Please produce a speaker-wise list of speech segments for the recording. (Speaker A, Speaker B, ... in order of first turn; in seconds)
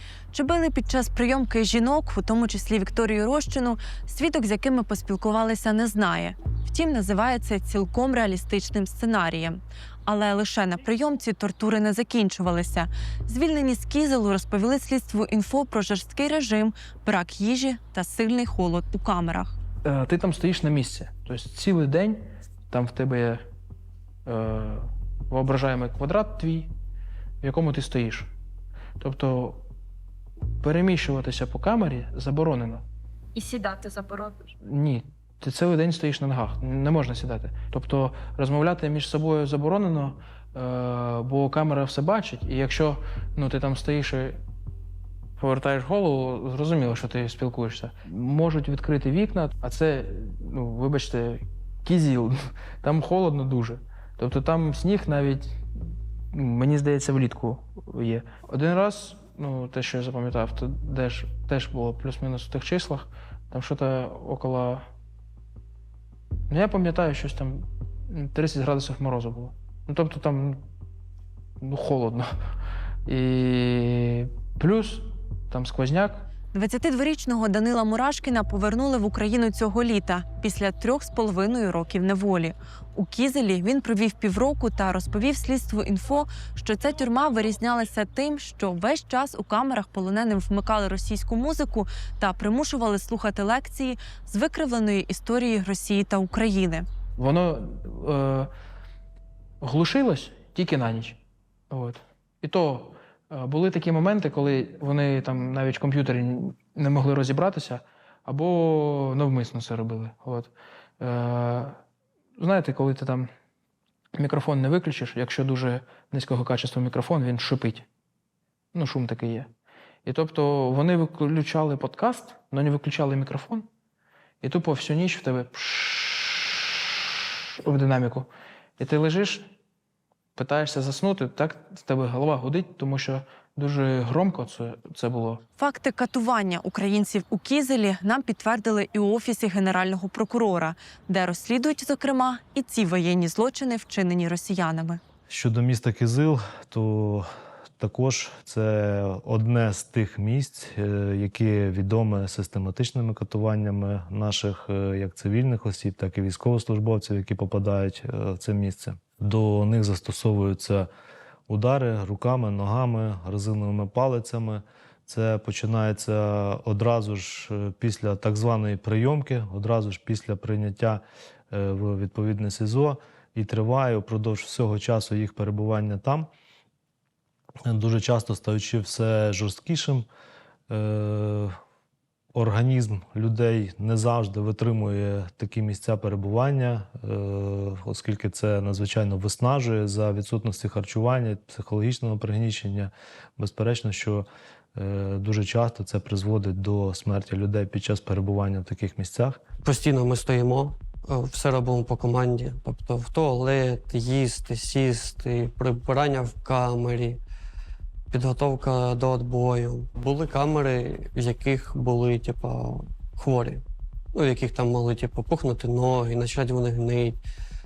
Speaker A: 0.3-19.6, 33.4-34.3, 76.5-96.8, 135.6-145.0
Speaker B: 19.8-23.5, 24.2-26.7, 27.4-28.3, 29.0-29.7, 30.6-32.9, 34.6-44.4, 45.4-64.9, 66.5-70.7, 71.6-72.3, 73.0-76.3, 97.2-98.5, 99.6-111.8, 112.4-113.3, 114.2-117.9, 118.7-119.5, 120.0-123.7, 124.4-129.5, 130.3-135.4
Speaker C: 145.3-147.2, 147.8-160.9, 161.5-176.3, 177.7-180.1, 180.7-181.5, 182.3-199.4
Speaker D: 199.6-207.2, 208.1-213.6, 214.1-217.2